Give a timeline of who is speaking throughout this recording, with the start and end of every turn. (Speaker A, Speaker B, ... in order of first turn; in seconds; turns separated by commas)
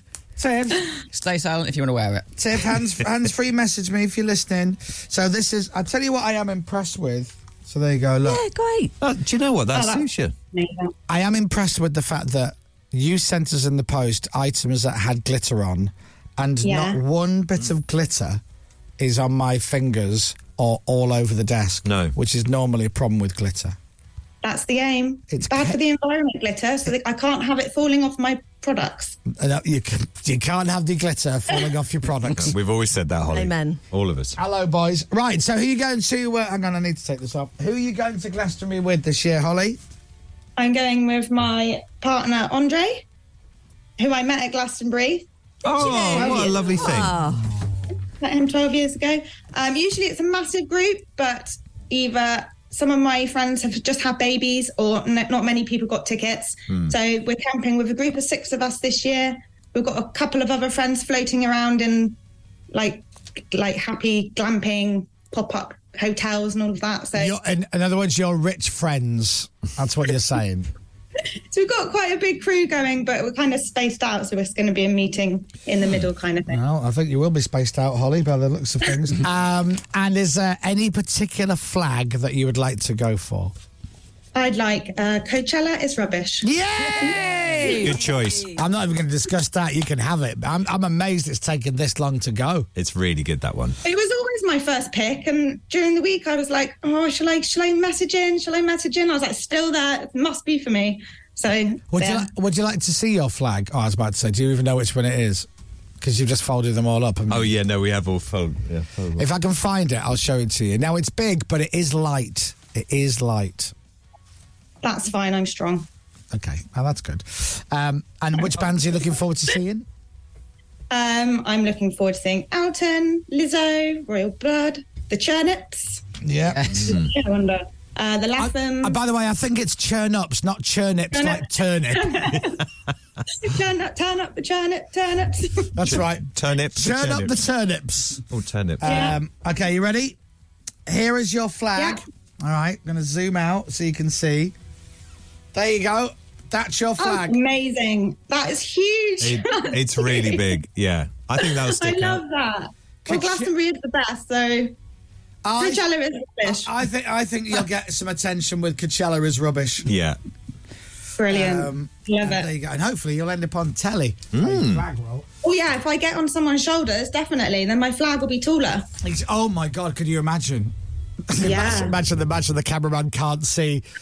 Speaker A: 0.4-0.9, Speaker B: 1.1-2.3, Speaker A: 2.4-8.4, Speaker C: 8.2-8.9, Speaker D: 9.0-10.3, Speaker E: 9.7-10.9, Speaker A: 11.1-18.4, Speaker E: 16.6-17.0, Speaker A: 19.0-23.8, Speaker D: 21.9-22.1, Speaker E: 24.4-29.2, Speaker A: 25.3-25.8, Speaker A: 29.3-32.6, Speaker D: 32.4-34.4, Speaker C: 33.3-33.8, Speaker A: 34.4-39.8, Speaker E: 40.6-43.0, Speaker E: 44.0-45.3, Speaker D: 45.6-47.1, Speaker C: 45.8-47.4, Speaker E: 45.8-47.0, Speaker E: 48.2-62.2, Speaker D: 56.7-57.0, Speaker E: 62.7-67.4, Speaker A: 67.2-70.7, Speaker E: 71.5-76.6, Speaker A: 76.5-83.5, Speaker E: 84.3-86.5, Speaker A: 86.4-88.0, Speaker B: 87.0-87.9, Speaker D: 87.8-88.5, Speaker A: 88.5-92.7, Speaker D: 92.8-93.8, Speaker E: 93.8-102.3, Speaker A: 101.9-105.5, Speaker A: 106.0-107.5, Speaker D: 107.3-109.3, Speaker A: 109.2-113.7, Speaker E: 114.8-115.9, Speaker A: 116.3-119.9, Speaker E: 120.9-126.1, Speaker A: 126.2-127.0, Speaker B: 126.5-127.0, Speaker D: 126.7-127.1, Speaker E: 126.9-129.0, Speaker A: 128.4-132.4, Speaker E: 131.1-132.6, Speaker E: 133.3-135.7, Speaker A: 135.8-138.2, Speaker D: 135.8-137.4, Speaker D: 138.3-139.1, Speaker A: 138.8-140.2, Speaker E: 138.8-139.2, Speaker A: 140.9-144.6, Speaker E: 141.8-142.0, Speaker A: 145.5-147.4, Speaker E: 147.0-150.6, Speaker D: 149.2-152.2, Speaker E: 151.4-154.7, Speaker A: 153.1-153.5, Speaker A: 155.4-155.8, Speaker E: 155.6-156.7, Speaker A: 156.4-159.9, Speaker D: 159.9-160.2, Speaker E: 161.2-162.5, Speaker A: 161.3-165.3, Speaker D: 164.3-164.8, Speaker E: 165.4-168.9, Speaker A: 169.0-170.7, Speaker A: 171.3-173.8, Speaker E: 171.4-172.0